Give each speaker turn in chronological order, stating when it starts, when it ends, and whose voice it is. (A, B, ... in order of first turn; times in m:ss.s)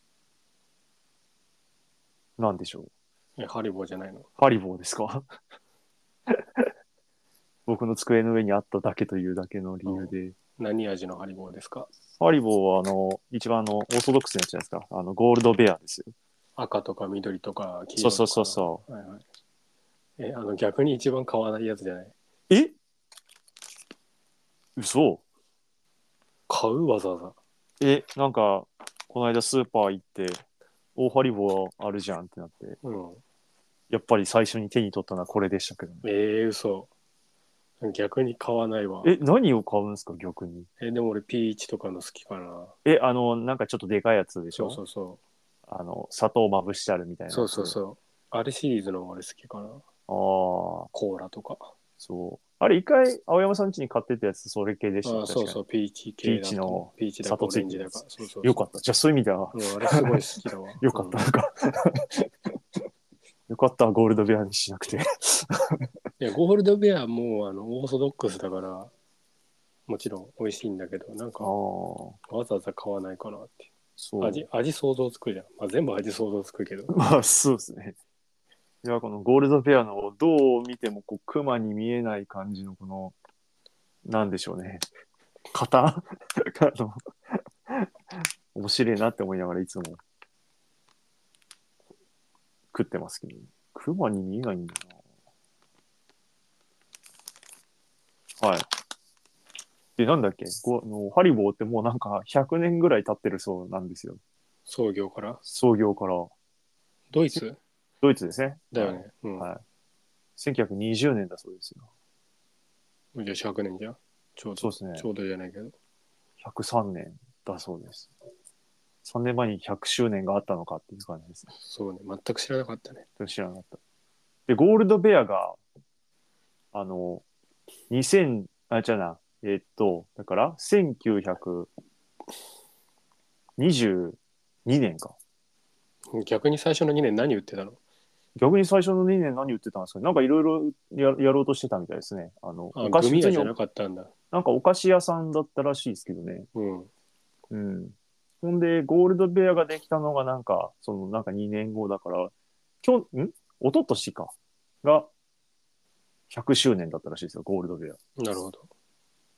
0:02.4-0:02.9 A
0:03.4-0:04.3 B
0:04.4-0:05.3 A
0:06.3-0:06.7 A
0:07.7-0:10.4 A
0:09.9-0:11.9 B
0:12.2-0:16.1 A
0:16.6-0:19.2 B
0:18.0-0:18.8 A
0:20.2-0:22.2 B
0:22.5-0:22.8 A
0:24.8-0:25.2 A
0:26.5-0:27.4 B
0:27.8-0:30.4 A
0:31.0-0:32.8 A
0:32.8-0:33.2 B
0:33.9-0:36.0 A
0:36.0-0:36.9 B
0:37.8-0:39.1 B
0:39.0-0:40.7 A
0:40.8-0:42.8 B
0:42.8-0:44.8 A
0:44.5-0:45.2 B
0:45.7-0:47.8 A
0:47.3-0:49.8 B
0:50.1-0:50.9 A
0:50.9-0:51.7 B
0:52.0-0:55.6 A
0:55.0-0:58.6 B
0:56.2-1:00.2 A
0:59.5-1:01.2 B
1:00.8-1:02.6 A
1:03.5-1:05.9 A
1:06.2-1:08.9 B
1:09.9-1:11.5 B
1:11.4-1:12.2 A
1:12.3-1:17.0 B
1:14.0-1:14.5 A
1:16.9-1:18.0 A
1:18.8-1:23.2 A
1:24.0-1:24.9 A
1:25.5-1:30.0 A
1:32.7-1:34.9 A
1:38.4-1:38.7 A
1:40.0-1:44.2 A
1:44.7-1:45.4 B
1:45.4-1:46.3 A
1:47.1-1:47.6 B
1:48.0-1:49.6 A
1:48.7-1:49.5 B
1:50.4-1:51.9 A
1:53.2-1:55.8 B
1:54.6-1:55.1 A
1:56.4-1:58.1 A
1:59.0-2:01.5 A
2:01.5-2:03.0 B
2:03.2-2:03.8 A
2:04.5-2:05.6 A
2:06.7-2:07.2 A
2:07.9-2:11.7 A
2:13.6-2:15.2 A
2:16.1-2:17.8 B
2:18.4-2:23.5 A
2:22.8-2:24.1 B
2:24.3-2:26.5 A
2:26.5-2:26.9 B
2:27.5-2:32.3 A
2:32.8-2:35.1 A
2:36.3-2:38.0 A
2:38.2-2:38.7 B